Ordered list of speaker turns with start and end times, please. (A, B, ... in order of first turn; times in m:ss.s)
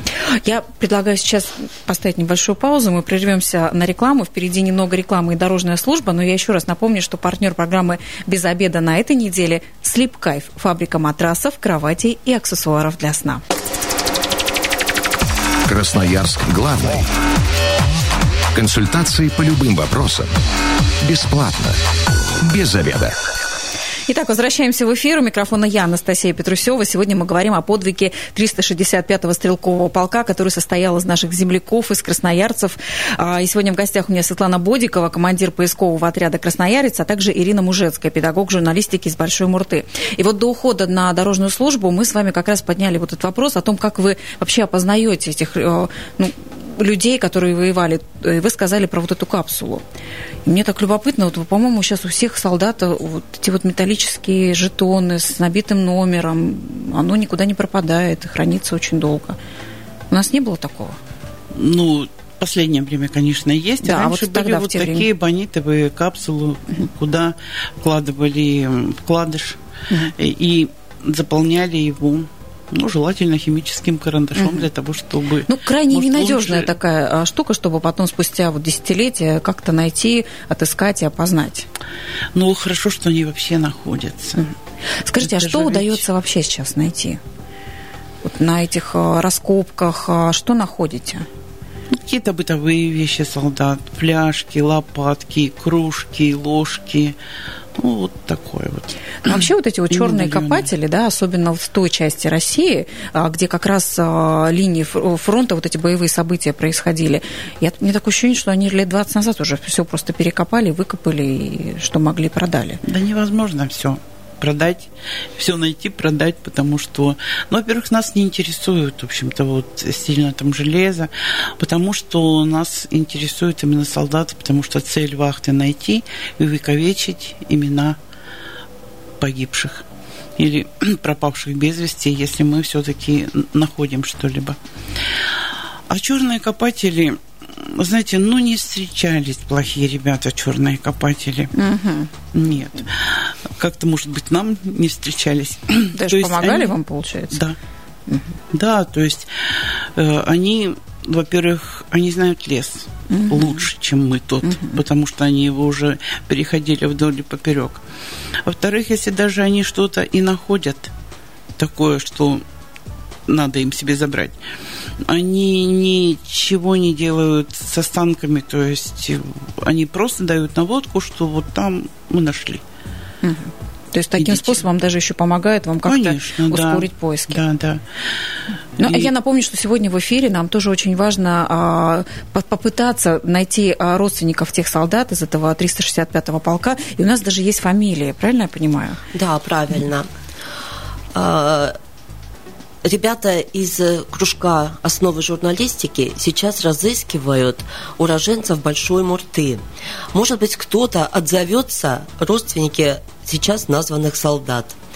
0:00.1-0:13.4 A
0:15.6-0:17.1 B
0:18.5-0:20.3 B
0:21.0-0:21.8 B
0:22.4-0:23.2 B
0:24.1-0:49.8 A
0:50.4-0:59.4 A
1:00.1-1:01.0 A
1:01.5-1:09.6 C
1:03.8-1:05.1 A
1:10.1-1:16.7 C
1:14.4-1:14.6 A
1:15.5-1:21.7 A
1:22.3-1:24.4 C
1:24.4-1:27.2 A
1:25.2-1:26.0 C
1:28.2-1:31.3 A
1:31.9-1:37.2 C
1:37.8-1:40.7 C
1:39.2-1:52.8 A
1:52.8-2:08.0 C
2:09.2-2:09.8 C
2:10.4-2:14.6 C
2:15.9-2:21.5 C
2:21.5-2:22.1 A
2:22.3-2:26.8 C
2:25.9-2:27.4 A
2:27.3-2:27.6 C
2:28.5-2:37.8 C
2:33.1-2:33.6 A
2:34.4-2:34.8 A
2:38.4-2:40.9 C
2:41.6-2:42.4 C
2:43.3-2:44.4 C
2:45.0-2:52.6 C
2:53.2-2:57.4 A
2:54.2-2:54.6 C
2:55.8-2:57.8 C
2:58.8-3:09.0 A
2:58.8-2:59.1 C
3:09.1-3:10.1 D
3:11.1-3:11.8 D
3:12.8-3:19.6 D
3:20.1-3:24.8 D